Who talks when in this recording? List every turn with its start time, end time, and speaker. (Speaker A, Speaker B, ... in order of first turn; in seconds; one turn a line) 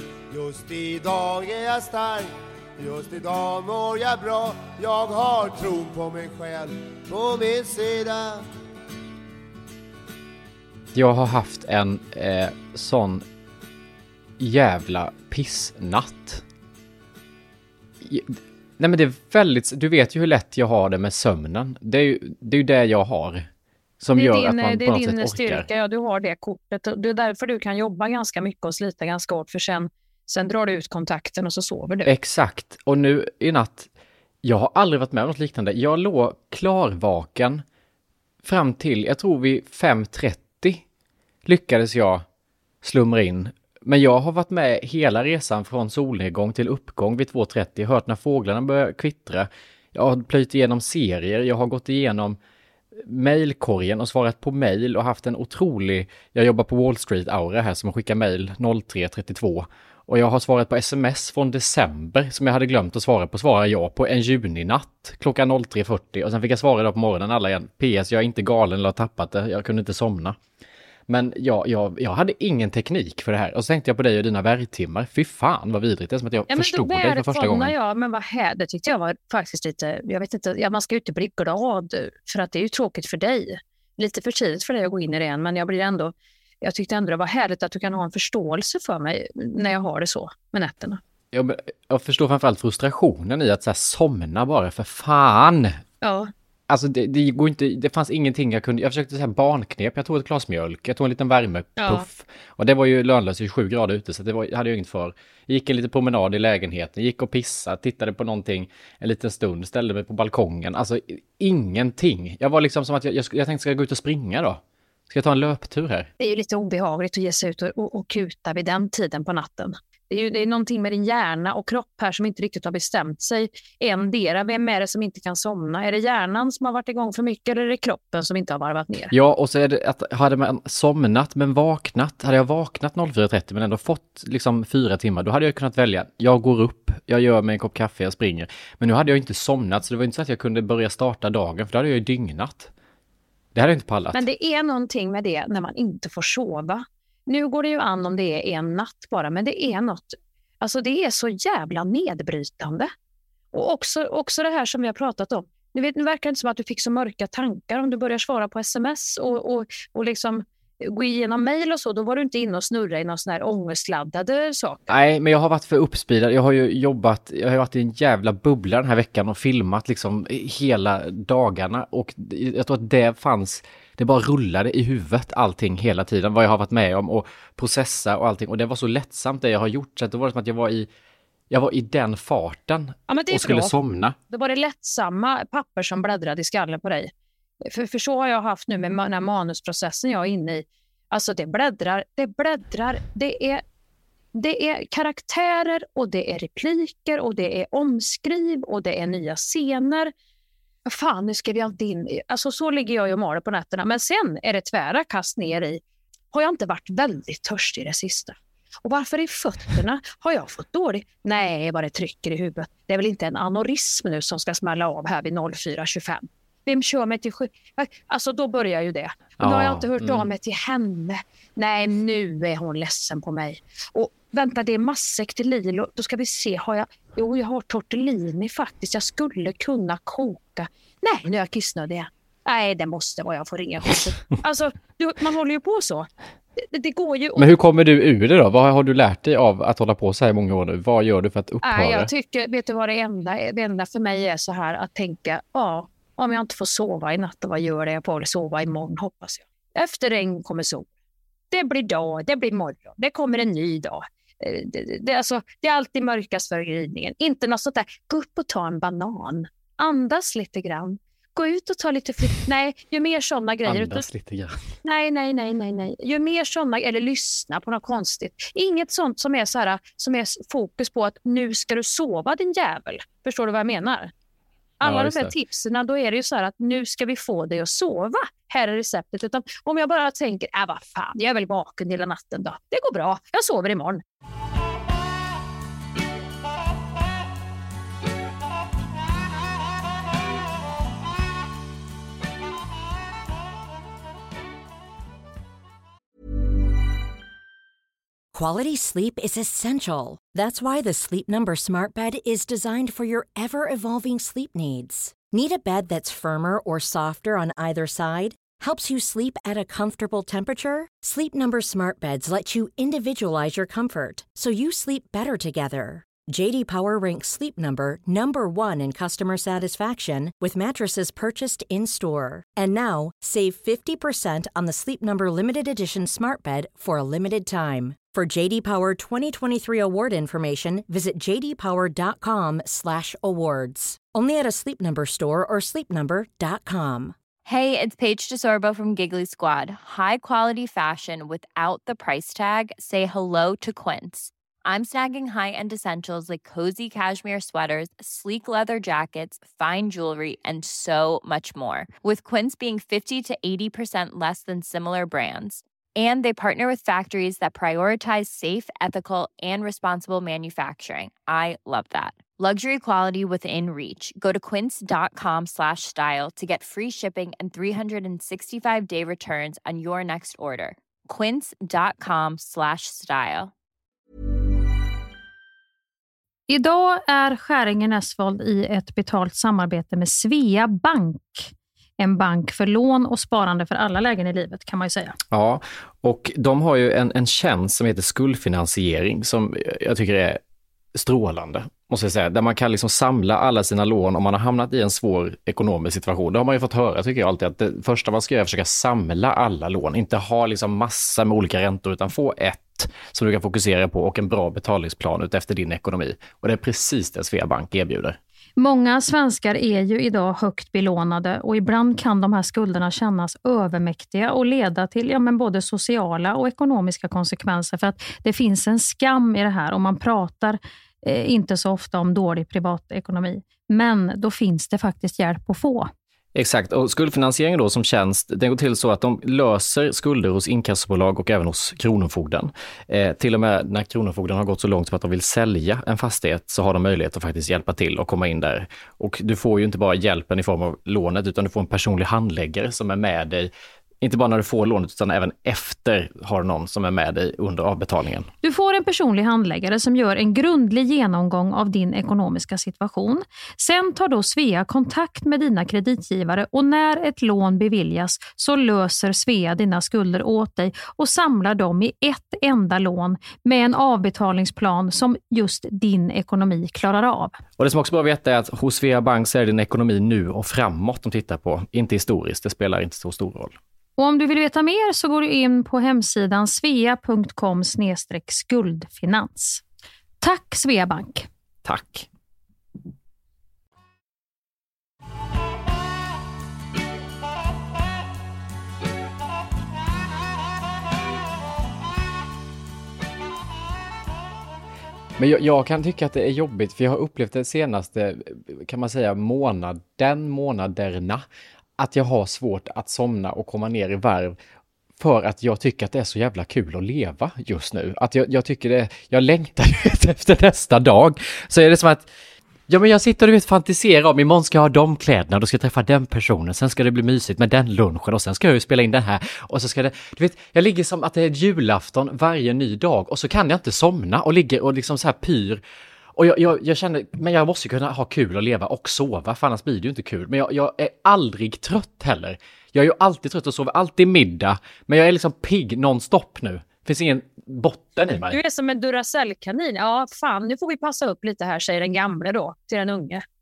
Speaker A: 0.3-8.4
Speaker B: 10.9-13.2
Speaker B: 14.4-16.4
Speaker B: 18.0-23.5
Speaker B: 24.0-25.7
Speaker C: 24.1-32.1
Speaker B: 32.0-33.9
Speaker B: 34.4-37.6
Speaker B: 38.4-40.8
Speaker B: 41.4-42.2
Speaker B: 42.8-52.4
Speaker B: 53.0-70.4
Speaker B: 71.1-77.7
Speaker C: 76.5-91.0
Speaker B: 91.3-95.8
Speaker C: 96.0-96.3
Speaker B: 96.7-116.1
Speaker C: 101.8-102.0
Speaker C: 116.2-129.1
Speaker B: 129.1-142.7
Speaker B: 143.5-144.2
Speaker C: 144.1-152.9
Speaker C: 153.5-164.9
Speaker B: 164.9-180.9
Speaker B: 181.5-184.2
Speaker C: 183.1-183.7
Speaker C: 184.3-187.1
Speaker C: 187.6-193.6
Speaker C: 194.3-200.1
Speaker C: 200.8-205.8
Speaker C: 206.3-236.1
Speaker B: 219.4-220.3
Speaker C: 236.6-237.5
Speaker B: 237.4-242.1
Speaker C: 241.6-250.9
Speaker C: 251.5-264.0
Speaker B: 263.6-264.6
Speaker C: 264.8-274.1
Speaker C: 274.8-284.0
Speaker B: 274.8-275.3
Speaker D: 298.3-337.1
Speaker E: 337.4-373.5
Speaker C: 376.5-385.1
Speaker B: 385.3-390.4
Speaker B: 390.9-408.2
Speaker C: 408.6-425.9
Speaker B: 426.3-448.3
Speaker C: 448.4-467.3
Speaker B: 467.6-473.6
Speaker C: 474.0-479.6
Speaker C: 480.2-481.3
Speaker B: 481.6-482.1
Speaker B: 495.2-501.2
Speaker B: 501.8-504.4
Speaker B: 505.0-512.1
Speaker B: 512.7-525.6
Speaker B: 526.1-538.4
Speaker C: 538.1-543.2